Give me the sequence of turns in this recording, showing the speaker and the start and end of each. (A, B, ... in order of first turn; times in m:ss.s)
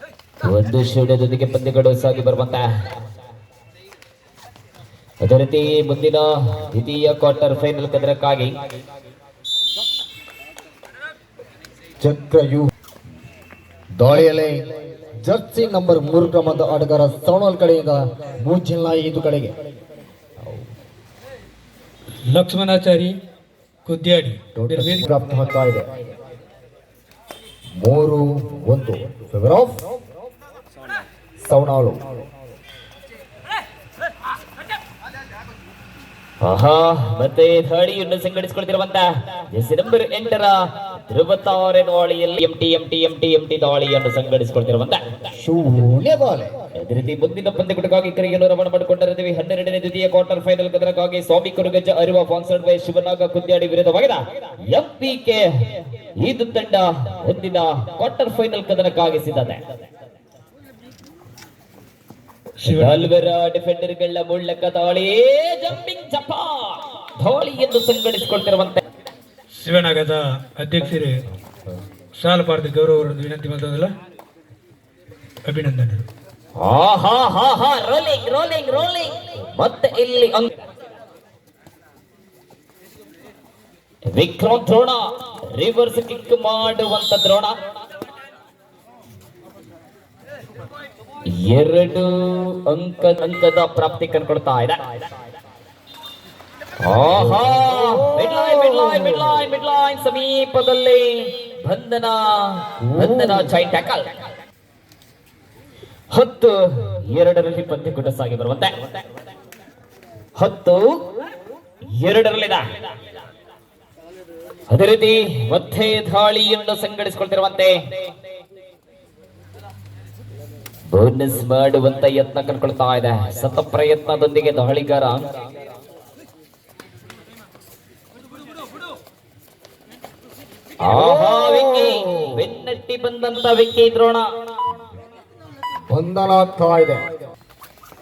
0:00.4-0:02.6 A
0:05.2-0:08.5 A
0:12.0-0:12.7 B
0:13.9-0:14.6 B
0:15.2-0:19.5 B
0:22.3-0:23.2 C
0:23.8-0:25.0 C
0:24.5-0:25.9 B
0:27.8-0:29.8 B
0:31.4-0:32.1 B
0:36.4-0:40.5 A
0:41.1-0:45.2 A
0:45.4-0:46.5 B
0:46.8-0:54.2 A
0:54.7-0:55.5 A
0:56.2-0:59.6 A
1:02.6-1:03.1 C
1:02.6-1:08.8 A
1:09.5-1:11.2 C
1:11.4-1:11.8 B
1:12.2-1:13.9 C
1:15.4-1:16.0 C
1:16.6-1:20.6 A
1:24.1-1:25.0 A
1:25.5-1:27.5 A
1:31.3-1:34.8 A
1:36.8-1:44.0 A
1:37.1-1:39.4 B
1:42.8-1:43.5 B
1:46.1-1:48.7 A
1:50.4-1:50.8 A
1:52.0-1:52.6 A
1:54.7-1:57.7 A
2:00.9-2:05.2 A
2:10.8-2:14.2 A
2:10.9-2:12.5 B
2:15.9-2:17.1 B